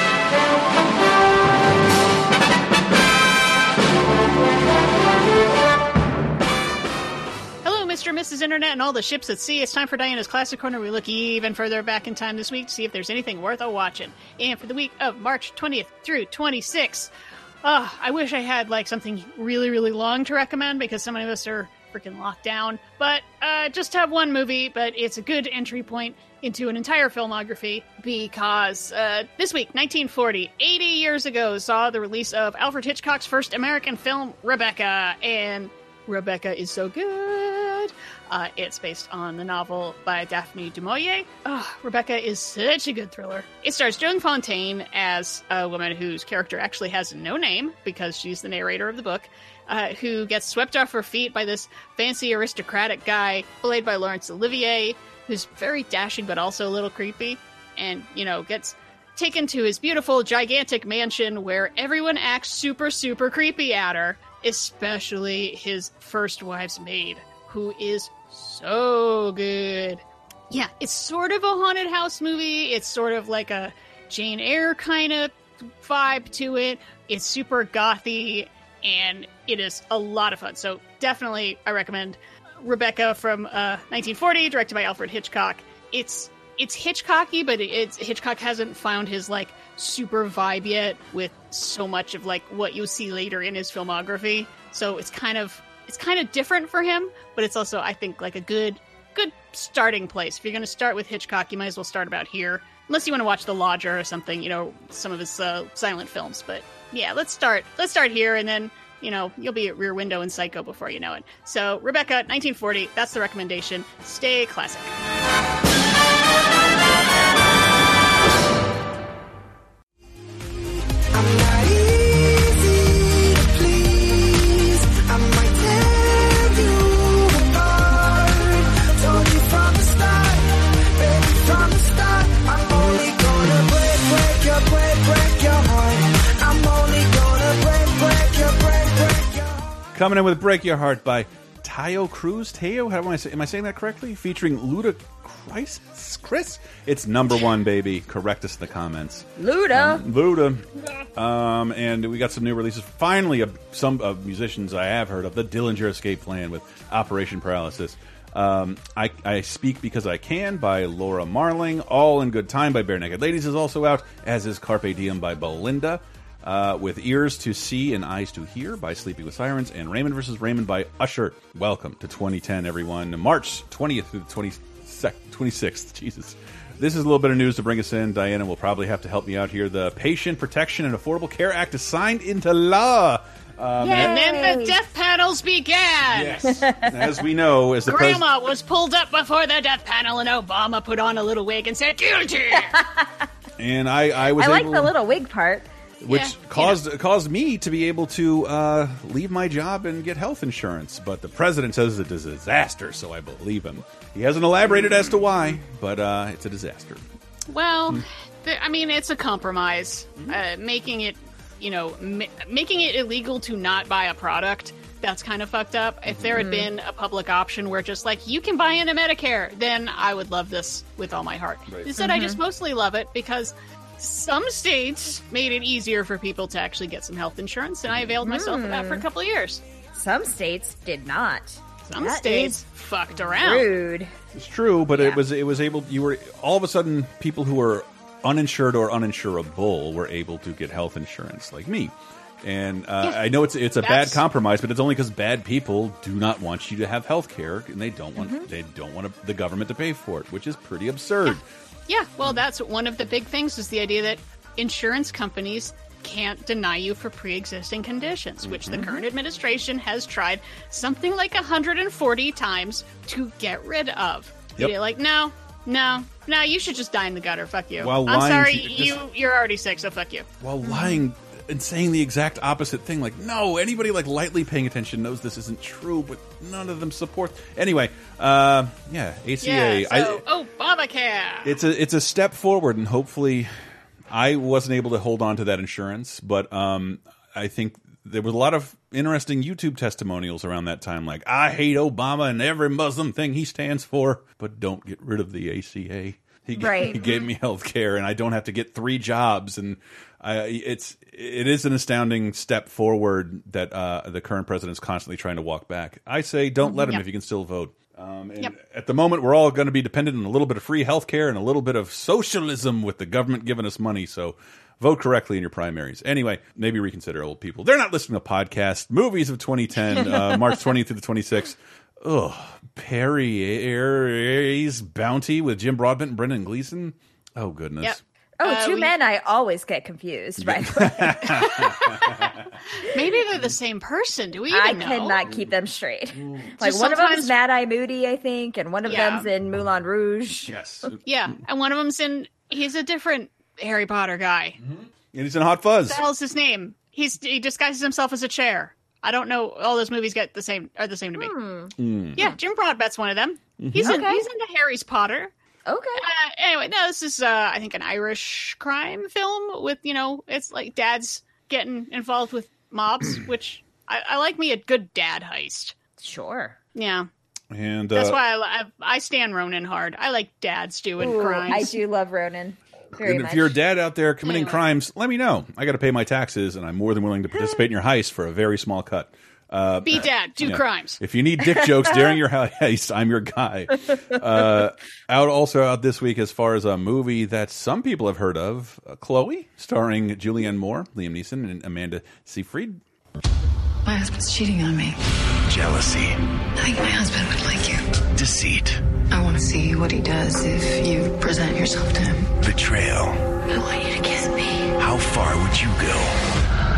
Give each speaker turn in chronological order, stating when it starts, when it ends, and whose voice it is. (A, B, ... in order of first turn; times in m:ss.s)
0:07.6-0:17.1 A
0:17.6-1:54.9 A
2:19.9-3:04.2 B
2:29.4-2:30.0 C
3:03.8-3:04.8 C
3:03.9-3:06.5 A
3:06.1-3:08.2 B
3:06.4-3:07.2 C
3:07.9-3:12.8 A
3:12.6-3:13.2 C
3:13.6-3:14.9 B
3:14.3-3:15.7 C
3:16.0-3:27.0 B
3:16.1-3:16.8 A
3:27.5-3:49.6 A
3:36.1-3:36.4 B
3:36.4-3:36.7 C
3:42.0-3:42.4 C
3:48.2-3:49.0 C
3:49.9-3:52.6 C
3:51.8-3:53.8 A
3:53.1-3:54.1 C
3:54.3-4:11.4 B
3:54.9-3:55.2 C
4:03.8-4:04.2 A
4:08.2-4:08.5 C
4:11.9-4:30.3 A
4:18.4-4:18.9 B
4:27.8-4:29.0 B
4:30.4-4:40.2 B
4:30.6-4:31.0 C
4:39.4-4:41.5 A
4:41.4-4:43.5 B
4:44.1-5:28.0 B
4:56.6-4:57.0 C
4:56.9-4:57.2 A
5:06.6-5:07.0 C
5:27.8-5:28.9 A
5:28.4-5:31.2 C
5:30.4-5:32.5 B
5:31.3-5:32.0 A
5:32.9-5:35.2 A
5:34.5-5:40.5 C
5:36.1-5:36.5 B
5:36.6-5:37.3 A
5:38.8-5:39.3 A
5:40.5-5:41.0 B
5:41.0-5:44.6 A
5:44.6-5:46.0 B
5:45.9-5:51.4 A
5:51.2-5:52.4 C
5:51.8-5:52.2 B
5:52.2-5:55.3 A
5:53.6-5:54.0 B
5:53.8-5:54.2 C
5:55.6-5:56.1 C
5:56.0-6:05.7 A
6:06.0-6:06.6 C
6:06.7-6:07.1 A
6:07.5-6:08.2 B
6:07.9-6:11.8 A
6:11.0-6:13.6 C
6:13.0-6:32.8 B
6:14.2-6:14.6 A
6:19.8-6:21.0 A
6:34.3-6:34.9 D
6:35.5-6:36.2 E
6:36.6-6:37.8 D
6:38.1-6:38.8 E
6:39.1-6:42.2 D
6:42.4-6:43.3 E
6:43.5-6:44.6 D
6:44.8-6:46.2 E